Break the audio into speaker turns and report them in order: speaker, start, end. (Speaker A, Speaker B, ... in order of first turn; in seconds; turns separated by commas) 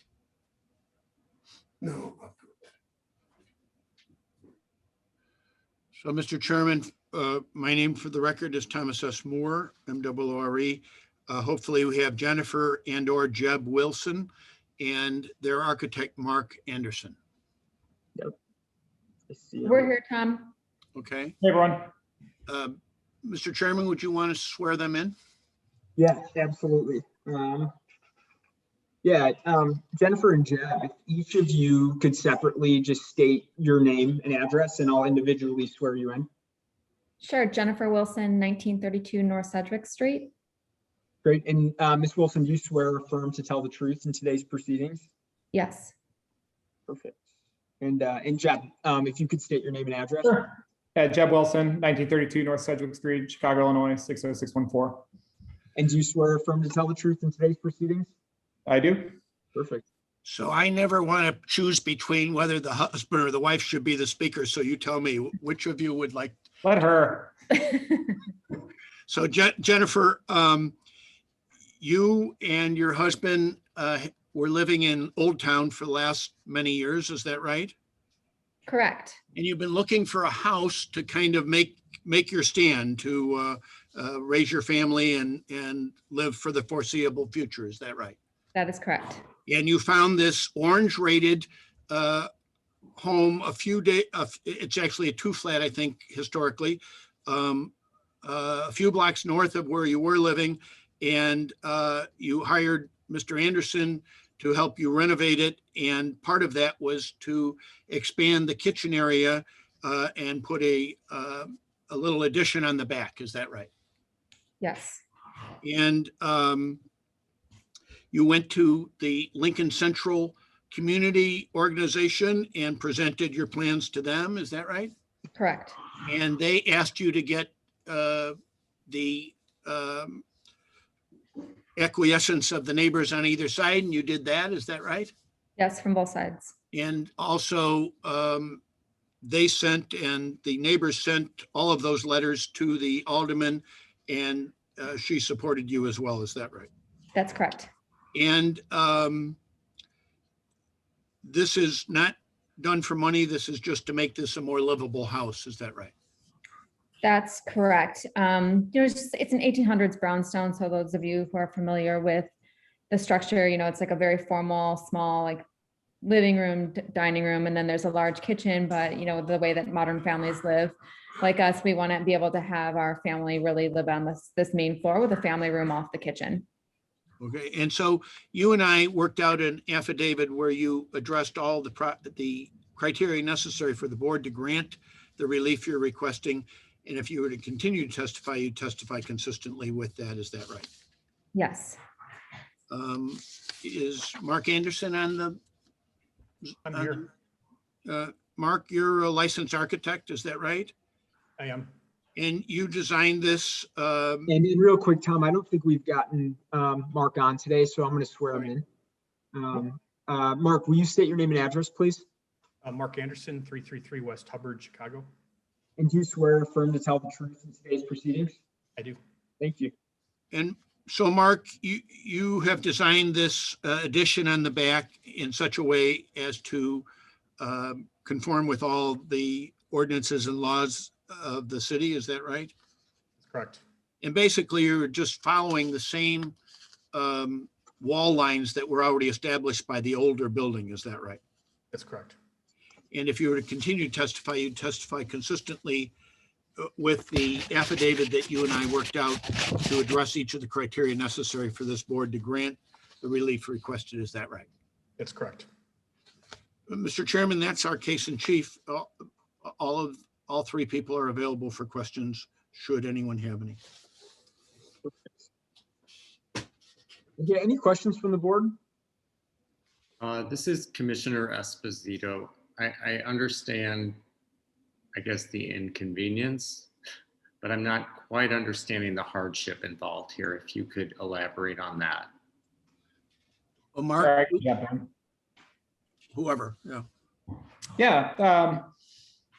Speaker A: 6.0-17.1, Speaker B: 19.3-19.9, Speaker C: 19.6-20.5, Speaker A: 20.9-21.3, Speaker D: 21.4-21.9, Speaker A: 22.5-25.1, Speaker B: 25.9-27.7, Speaker B: 29.0-36.3, Speaker C: 37.2-40.3, Speaker B: 41.2-45.0, Speaker C: 45.5-45.9, Speaker B: 46.9-47.2, Speaker B: 47.8-50.5, Speaker D: 51.0-55.0, Speaker B: 55.8-58.1, Speaker D: 58.7-59.2, Speaker B: 59.5-59.9, Speaker A: 60.2-66.3, Speaker D: 66.6-67.3, Speaker A: 69.1-70.7, Speaker A: 71.8-77.7, Speaker C: 78.7-79.2, Speaker A: 79.3-88.2, Speaker C: 88.5-89.2, Speaker A: 89.5-92.3, Speaker A: 93.0-113.7, Speaker C: 114.6-115.0, Speaker A: 115.6-116.8, Speaker A: 118.1-124.9, Speaker C: 125.3-125.8, Speaker A: 126.0-128.3, Speaker A: 128.9-130.2, Speaker A: 131.8-135.1, Speaker C: 135.6-136.5, Speaker A: 136.7-138.6, Speaker A: 139.2-146.7, Speaker C: 147.1-147.7, Speaker A: 148.1-149.4, Speaker A: 151.2-155.9, Speaker C: 157.0-162.3, Speaker C: 162.9-165.4, Speaker C: 166.0-176.4, Speaker A: 177.2-190.7, Speaker C: 191.3-191.8, Speaker A: 192.7-195.4, Speaker A: 196.4-197.0, Speaker E: 196.6-197.0, Speaker A: 197.8-200.7, Speaker E: 201.4-201.7, Speaker A: 202.2-204.3, Speaker B: 204.3-208.6, Speaker B: 209.3-212.0, Speaker E: 212.6-215.1, Speaker B: 215.8-218.4, Speaker B: 219.4-219.7, Speaker A: 220.3-226.8, Speaker A: 227.4-232.5, Speaker E: 233.2-233.6, Speaker A: 234.0-236.3, Speaker A: 236.9-241.2, Speaker E: 241.7-242.2, Speaker A: 242.9-245.9, Speaker A: 246.6-254.5, Speaker E: 255.0-255.5, Speaker A: 256.7-263.6, Speaker B: 267.2-268.5, Speaker F: 270.0-274.0, Speaker F: 274.9-276.7, Speaker F: 277.4-282.1, Speaker A: 283.7-284.4, Speaker D: 284.0-284.9, Speaker A: 286.1-286.9, Speaker D: 287.8-288.7